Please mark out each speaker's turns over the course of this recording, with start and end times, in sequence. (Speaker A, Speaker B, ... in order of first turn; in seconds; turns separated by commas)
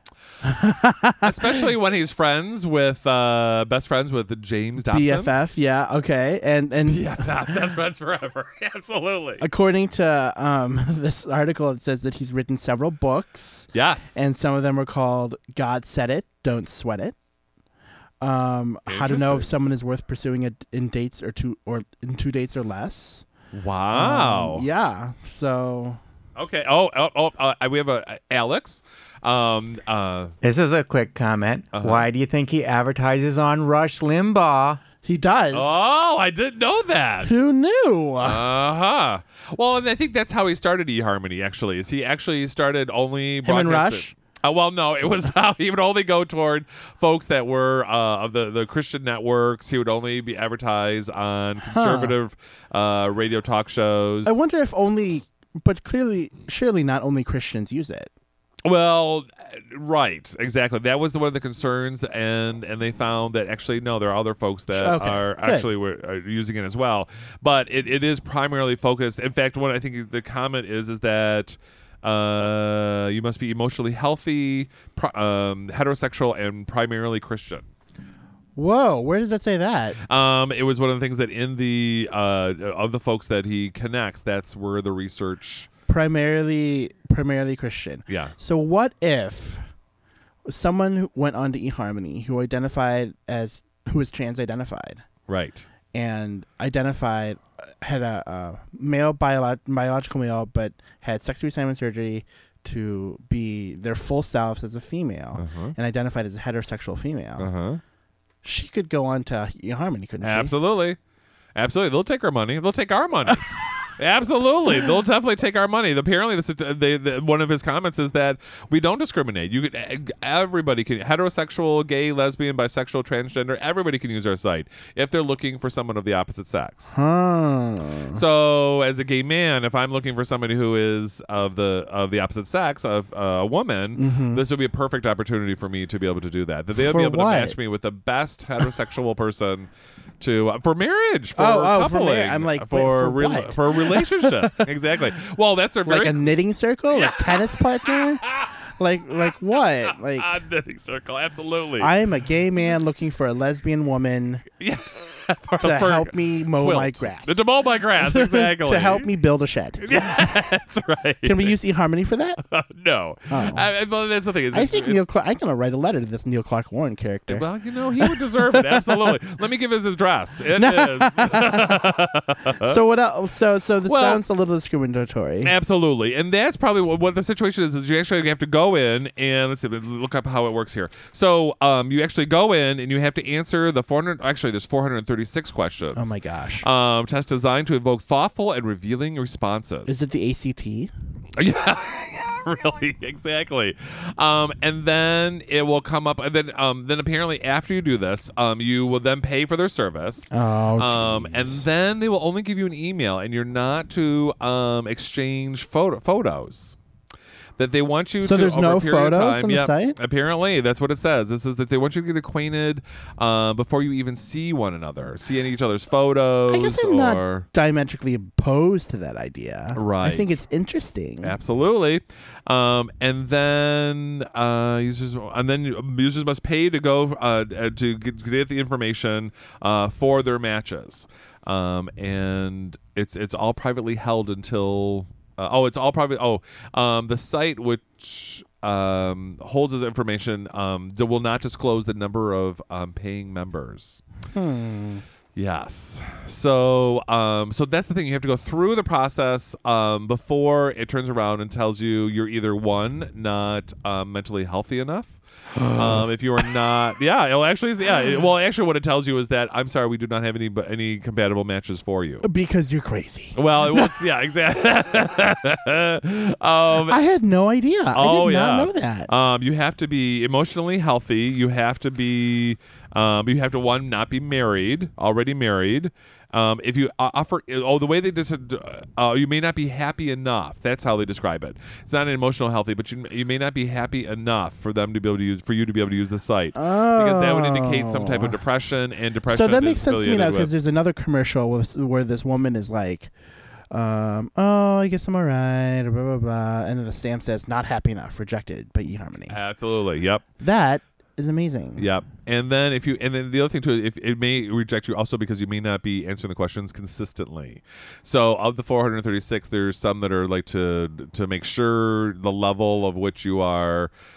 Speaker A: 0.4-1.6, Speaker B: 1.2-5.3, Speaker A: 4.9-7.6, Speaker B: 6.8-9.4, Speaker A: 9.4-17.1, Speaker B: 13.7-14.2, Speaker A: 18.2-23.2, Speaker B: 18.9-19.5, Speaker B: 23.5-24.6, Speaker A: 23.9-26.0, Speaker B: 26.4-30.3, Speaker C: 30.4-34.8, Speaker B: 31.7-32.1, Speaker A: 35.0-35.7, Speaker B: 35.5-37.4, Speaker A: 37.2-38.4, Speaker B: 38.2-54.4, Speaker A: 43.4-44.1, Speaker A: 51.6-52.1, Speaker A: 54.2-58.1, Speaker B: 58.6-77.7, Speaker A: 64.7-65.7, Speaker A: 78.5-80.0, Speaker B: 80.0-85.7, Speaker A: 85.9-89.6, Speaker B: 88.1-88.3, Speaker A: 90.5-95.0, Speaker B: 95.3-95.7, Speaker A: 95.9-107.5, Speaker B: 105.4-105.7, Speaker B: 107.4-107.8, Speaker A: 108.4-110.5, Speaker B: 110.2-111.0, Speaker B: 111.5-127.0, Speaker A: 126.9-128.2, Speaker B: 128.1-146.2, Speaker A: 133.9-134.4, Speaker A: 136.7-137.6, Speaker A: 141.3-144.6, Speaker A: 145.8-148.2, Speaker B: 146.9-148.5, Speaker A: 148.8-150.3, Speaker B: 149.8-151.9, Speaker A: 151.8-154.4, Speaker B: 154.6-159.1, Speaker A: 155.6-157.4, Speaker A: 158.0-159.9, Speaker B: 159.8-161.6, Speaker A: 161.2-162.4, Speaker B: 162.4-165.0, Speaker A: 163.3-163.7, Speaker A: 164.5-167.4, Speaker B: 167.3-172.8, Speaker A: 168.0-169.1, Speaker A: 170.6-171.8, Speaker A: 172.6-175.5, Speaker B: 173.8-174.2, Speaker B: 175.4-190.0, Speaker A: 185.9-186.7, Speaker A: 189.8-190.9, Speaker B: 191.4-206.8, Speaker A: 200.3-201.6, Speaker B: 207.6-217.5, Speaker A: 208.2-210.0, Speaker A: 216.5-221.3, Speaker B: 219.7-220.4, Speaker B: 221.2-244.0, Speaker A: 244.3-245.0, Speaker B: 245.3-255.2, Speaker A: 255.6-256.0, Speaker B: 255.7-262.2, Speaker A: 262.2-263.9, Speaker B: 263.3-267.0, Speaker A: 266.9-269.1, Speaker B: 267.9-290.5, Speaker A: 286.5-288.4, Speaker A: 289.3-293.1, Speaker A: 293.7-299.4, Speaker B: 299.3-300.2, Speaker A: 300.4-301.9, Speaker B: 301.8-313.9